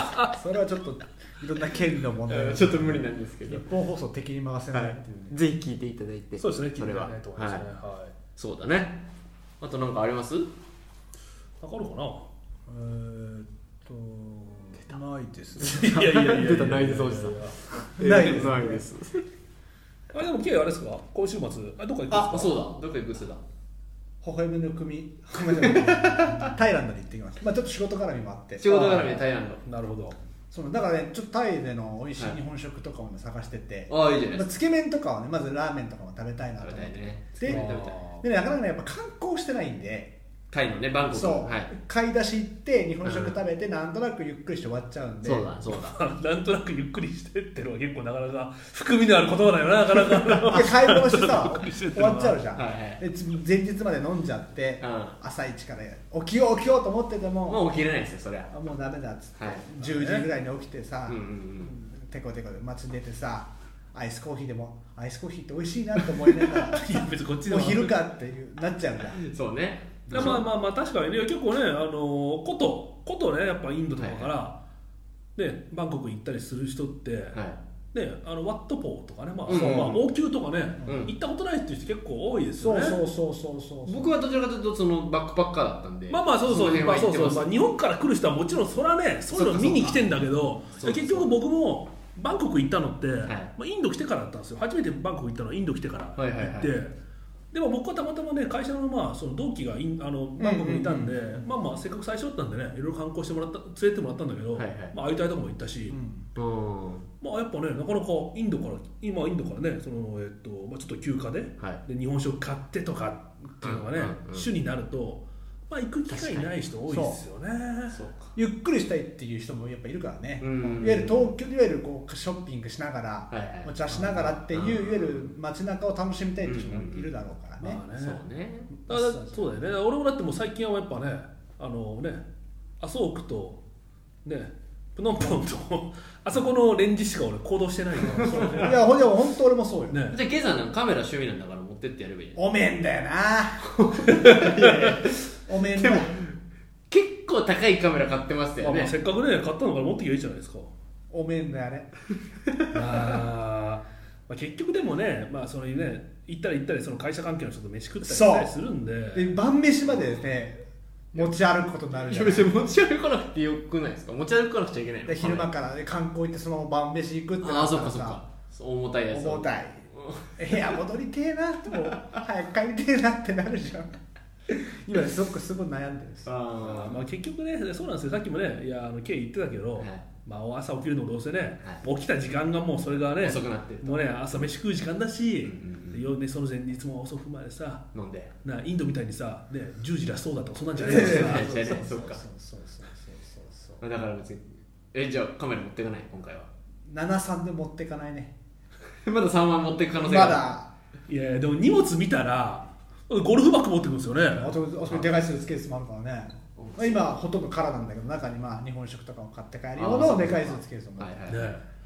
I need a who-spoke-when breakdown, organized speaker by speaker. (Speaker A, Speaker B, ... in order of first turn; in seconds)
Speaker A: 0.2-5.3, 12.7-15.9, 18.0-18.9, 22.1-22.5, 24.2-29.2, 30.5-40.1, 41.1-45.5, 50.5-57.6, 58.5-61.2, 61.9-66.9, 67.5-69.2, 70.1-70.5, 79.5-80.0, 80.8-81.1, 82.6-84.1, 89.4-90.1, 100.4-101.5, 105.9-106.3, 116.9-117.2, 118.3-127.8, 128.9-129.6, 138.2-140.0, 142.3-143.7, 144.6-146.2, 151.1-151.9, 158.0-158.5, 159.1-162.6, 165.1-168.2, 169.1-169.8, 170.4-174.0, 174.7-176.3, 190.8-193.8, 196.9-198.3, 200.0-200.7, 204.3-211.2
Speaker B: 2.3-3.7, 4.7-7.7, 8.4-9.1, 9.6-10.5, 15.6-19.2, 22.3-23.4, 25.5-26.4, 28.6-29.6, 33.9-34.5, 36.6-38.0, 40.5-41.7, 43.0-43.4, 45.2-46.0, 52.5-53.0, 54.8-55.2, 57.5-58.5, 59.4-59.7, 61.1-61.8, 69.1-70.4, 74.0-74.3, 77.3-77.6, 79.5-80.0, 80.9-81.1, 83.8-87.6, 89.5-90.0, 90.8-91.3, 93.2-93.5, 96.2-96.7, 104.5-105.0, 106.4-107.1, 113.6-114.5, 116.1-116.5, 117.9-118.3, 120.4-121.3, 123.3-125.3, 126.4-127.1, 127.9-128.8, 138.2-138.7, 140.1-142.4, 143.6-148.9, 159.8-160.3, 162.1-165.5, 167.4-170.8, 176.2-177.0, 179.8-180.1, 183.2-184.1, 185.4-186.0, 187.9-188.3, 190.8-192.2, 193.8-196.5, 199.1-200.5, 204.8-205.2, 206.6-207.2, 209.8-211.6
Speaker C: 6.4-8.1, 11.6-12.3, 15.6-18.6, 20.1-22.6, 28.7-30.2, 37.4-38.2, 45.7-52.5, 59.8-60.3, 61.6-61.9, 66.7-68.0, 70.1-74.6, 75.4-77.4, 77.9-83.0, 86.1-96.9, 97.5-106.0, 107.2-118.0, 123.9-124.3, 127.6-128.2, 128.7-132.2, 132.8-133.6, 134.2-138.9, 139.9-140.2, 144.2-144.8, 148.6-150.7, 152.7-159.4, 176.6-187.9, 188.4-191.5, 201.1-204.5, 211.3-211.6